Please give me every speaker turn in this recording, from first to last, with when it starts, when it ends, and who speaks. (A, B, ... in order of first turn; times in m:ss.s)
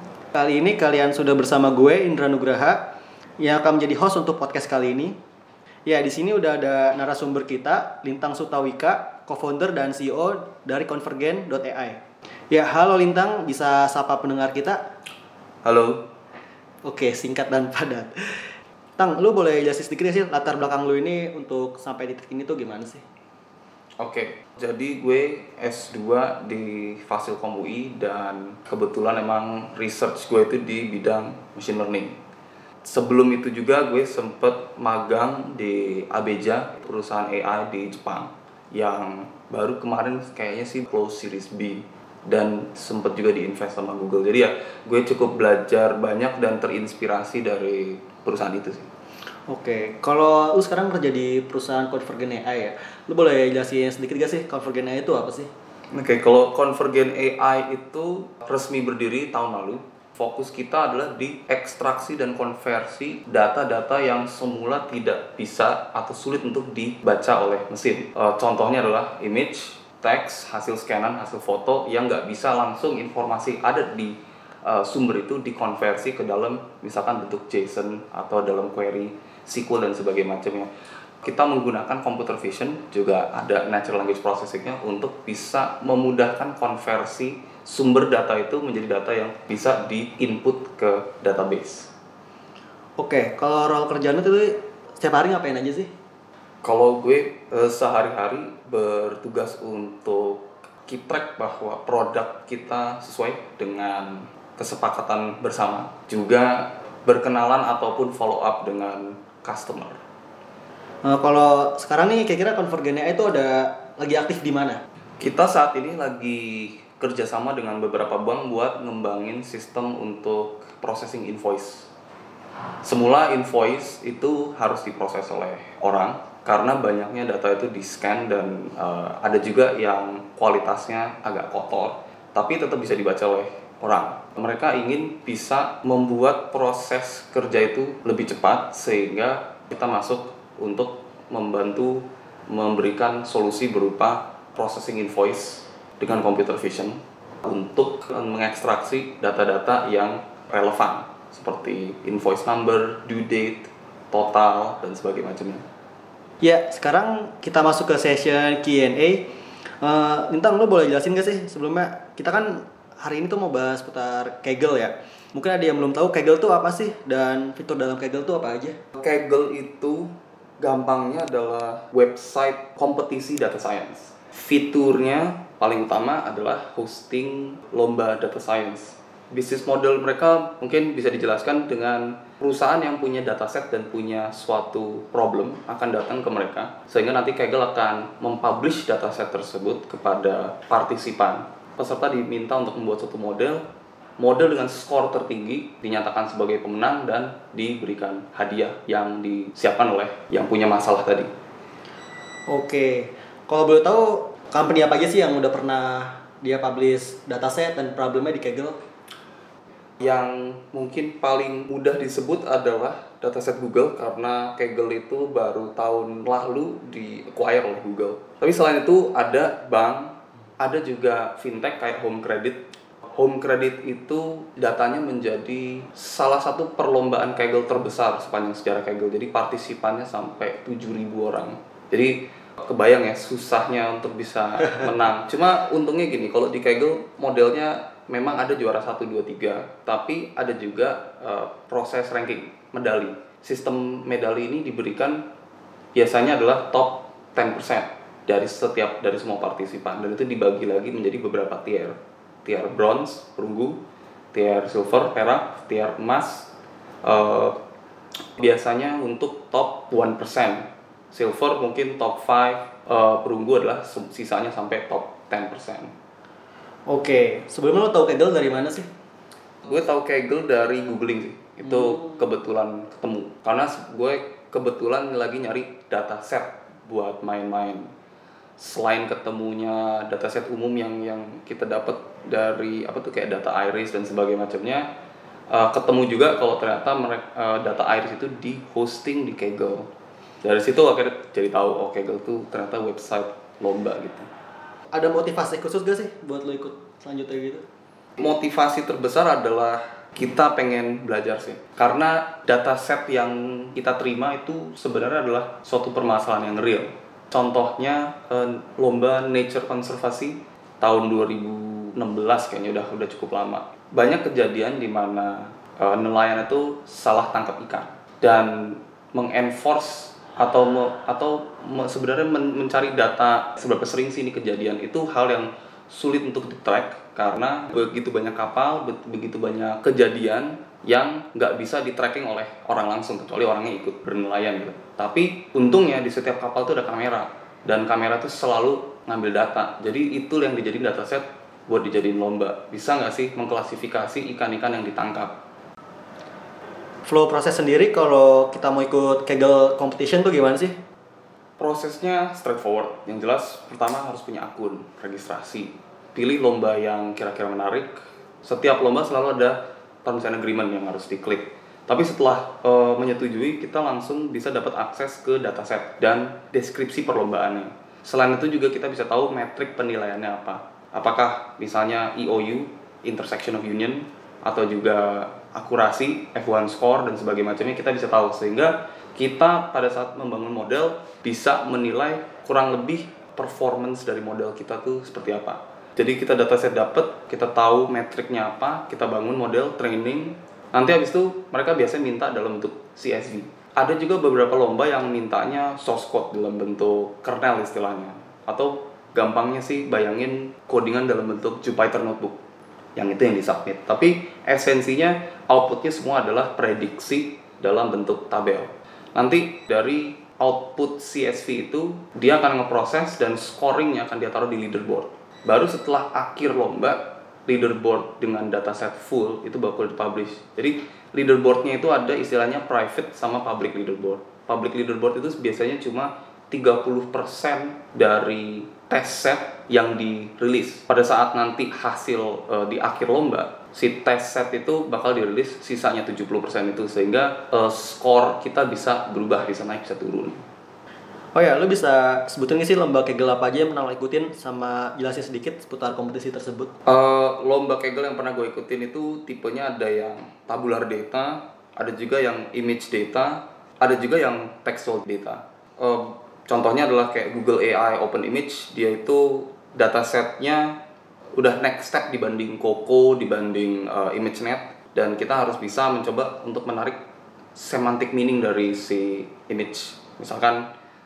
0:00.3-0:02.8 A
0:03.4-0:05.2 A
0:05.8-0:14.8 A
0:15.6-0:16.0 B
0:16.8-0:23.0 A
0:24.0-0:32.2 B
0:32.8-0:48.9 B
0:49.5-0:55.5 A
0:55.9-1:31.9 B
1:33.0-1:35.9 A
1:36.6-1:50.0 B
1:51.0-1:54.8 A
1:55.2-2:01.9 B
2:02.8-2:35.6 B
2:36.4-2:39.3 A
2:39.8-2:48.8 A
2:48.9-3:13.6 B
3:14.2-3:21.3 B
3:22.5-3:28.8 A
3:30.0-3:42.6 B
3:43.1-4:05.2 B
4:05.9-4:13.8 B
4:14.3-4:16.5 B
4:17.0-4:17.6 B
4:18.4-4:25.9 B
4:26.9-4:28.9 A
4:29.6-4:37.9 B
4:38.6-4:44.9 B
4:45.5-4:49.9 B
4:50.4-4:54.3 B
4:54.9-4:57.6 A
4:58.2-5:45.4 B
5:47.0-5:50.8 A
5:51.6-6:42.4 B
6:43.0-7:20.4 B
7:21.3-7:26.7 A
7:26.9-7:40.8 B
7:41.4-7:47.0 B
7:47.5-7:50.7 B